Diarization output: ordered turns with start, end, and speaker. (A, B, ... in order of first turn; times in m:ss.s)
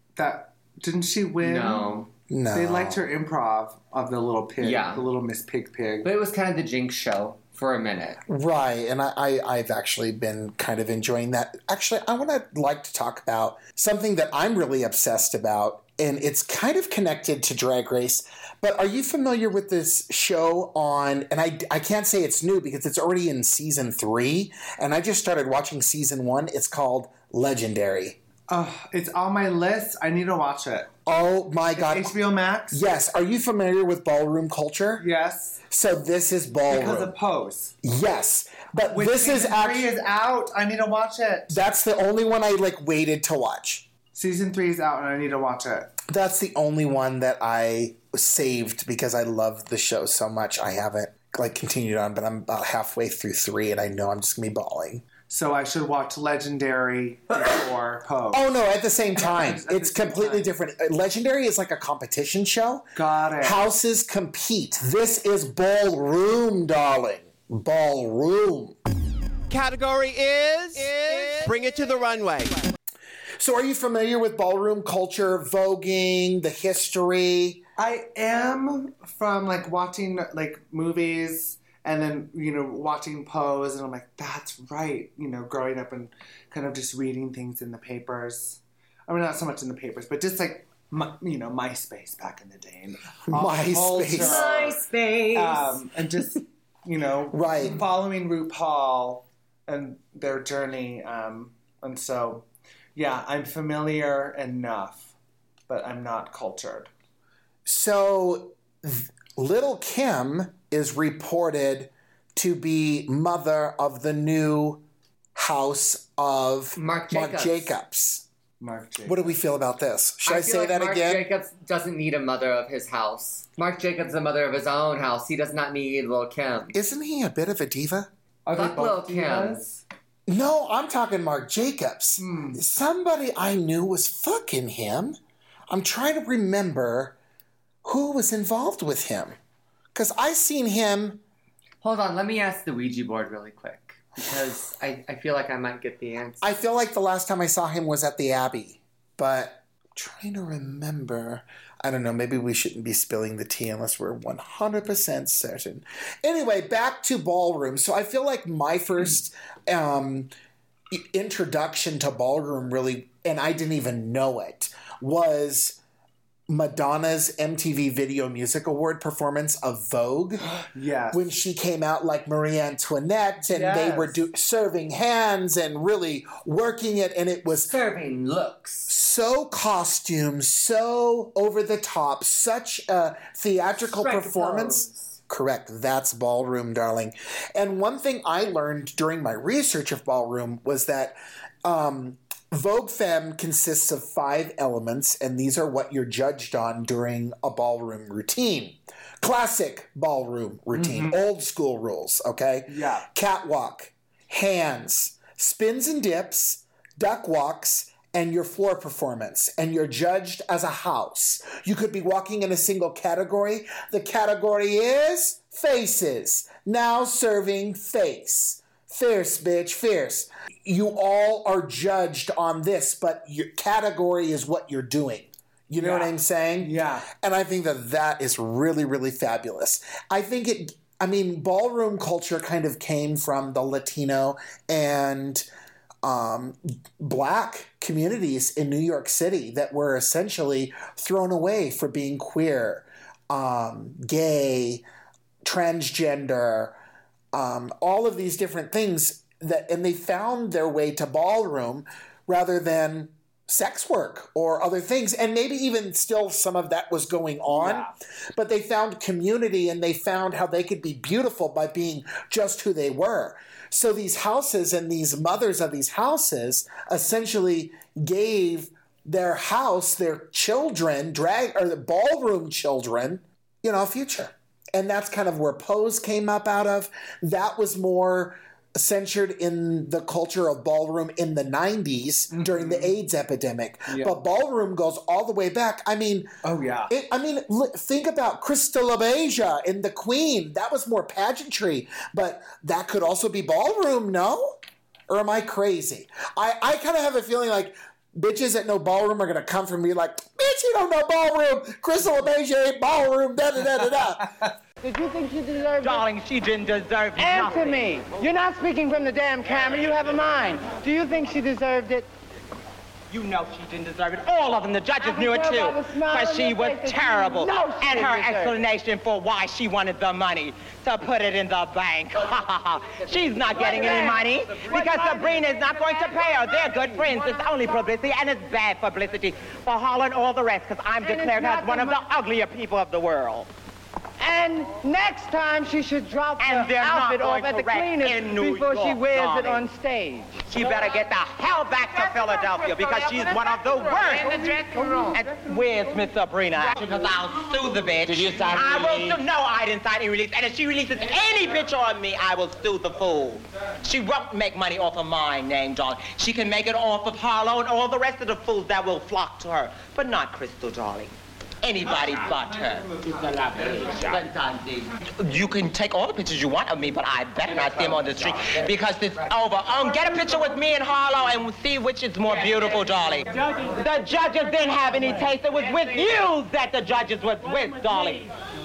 0:00.2-0:01.9 A
0:01.4-0:02.1 B
0:02.3-0:03.0 C
0:02.5-0:06.1 A
0:04.6-0:05.0 B
0:06.0-0:08.2 B
0:08.3-0:28.2 C
0:28.5-0:30.9 A
0:31.0-0:32.1 C
0:31.8-0:32.8 A
0:32.7-0:35.1 C
0:35.0-0:35.6 A
0:35.7-0:37.1 C
0:36.7-0:37.7 A
0:37.8-0:39.9 C
0:38.9-0:41.6 A
0:41.5-0:43.9 C
0:44.1-0:45.9 A
0:46.1-0:55.0 C
0:55.2-0:58.5 A
0:58.3-1:08.8 C
0:59.2-1:00.5 A
1:03.0-1:03.6 A
1:09.5-1:12.7 D
1:13.4-1:17.6 C
1:17.8-1:34.8 A
1:33.3-1:34.5 C
1:34.2-1:35.8 B
1:35.3-1:45.1 A
1:37.3-1:37.8 C
1:45.7-1:46.9 A
1:47.6-1:54.8 C
1:55.3-1:58.2 C
1:56.8-1:57.7 B
1:58.6-1:59.3 A
1:59.0-2:01.3 C
2:00.2-2:06.8 B
2:06.7-2:08.1 C
2:08.4-2:09.8 A
2:08.5-2:09.6 B
2:10.3-2:15.2 C
2:12.2-2:12.6 A
2:15.7-2:17.2 C
2:17.8-2:19.4 C
2:19.9-2:21.2 C
2:21.8-2:26.4 B
2:26.4-2:40.3 C
2:40.9-2:45.8 C
2:46.5-2:50.5 C
2:50.6-2:51.3 A
2:51.1-2:57.7 C
2:53.4-2:54.2 A
2:57.7-2:58.9 B
2:58.9-3:55.4 C
3:03.8-3:05.1 B
3:20.7-3:21.2 A
3:22.7-3:23.0 A
3:45.8-3:47.1 A
3:56.0-4:04.8 C
4:05.4-4:06.8 C
4:07.3-4:46.3 C
4:42.3-4:42.9 A
4:43.9-4:44.1 A
4:46.4-4:46.9 A
4:46.9-5:04.3 C
5:04.8-5:06.0 E
5:05.8-5:07.8 F
5:07.2-5:12.1 E
5:13.1-5:33.5 F
5:15.0-5:18.6 E
5:23.6-5:25.6 E
5:31.0-5:32.0 E
5:34.2-5:40.4 E
5:36.4-5:39.6 F
5:40.5-5:44.4 F
5:42.1-5:45.4 E
5:45.1-6:18.3 F